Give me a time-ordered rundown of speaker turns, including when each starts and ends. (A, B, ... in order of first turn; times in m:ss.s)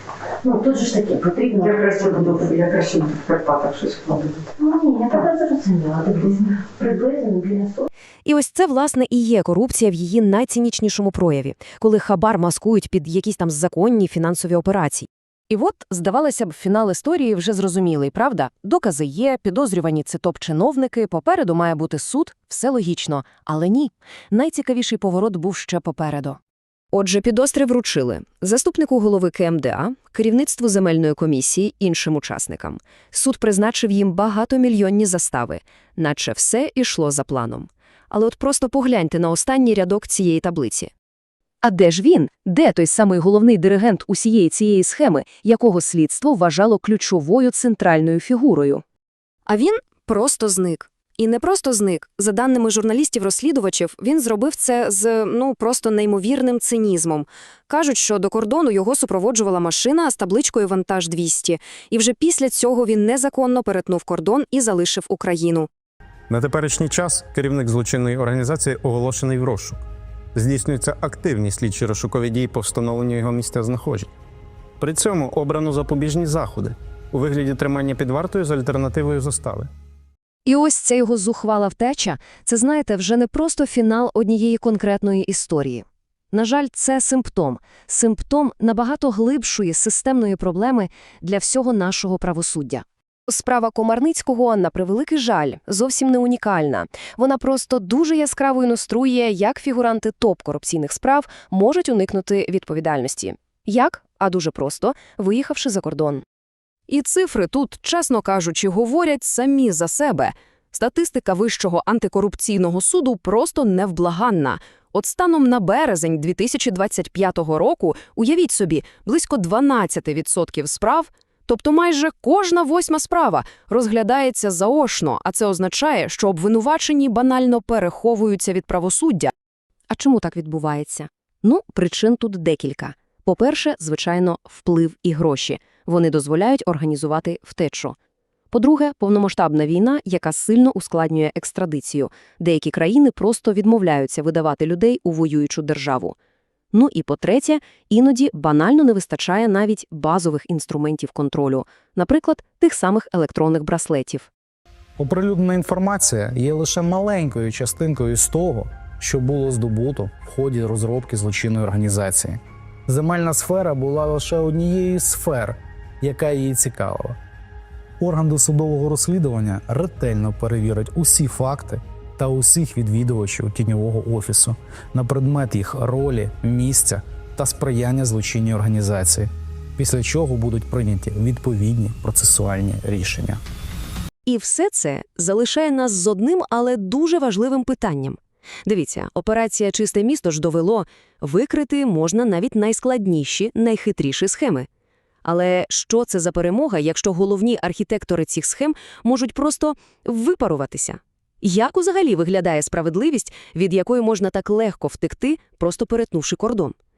0:00.4-0:03.0 A
0:01.6-0:04.3 B
0:04.4-0:07.8 A
0:08.2-0:26.4 C
0:26.9-0:40.9 C
0:41.6-0:48.8 C
0:49.5-1:05.7 C
1:06.3-1:09.8 D
1:10.4-1:14.1 D
1:14.8-1:19.7 D
1:20.5-1:46.2 C
1:46.9-2:09.3 C
2:09.9-2:18.0 C
2:18.5-2:26.2 C
2:26.7-2:34.3 C
2:35.0-2:47.2 E
2:48.0-3:03.4 E
3:04.3-3:14.7 C
3:15.2-3:26.8 C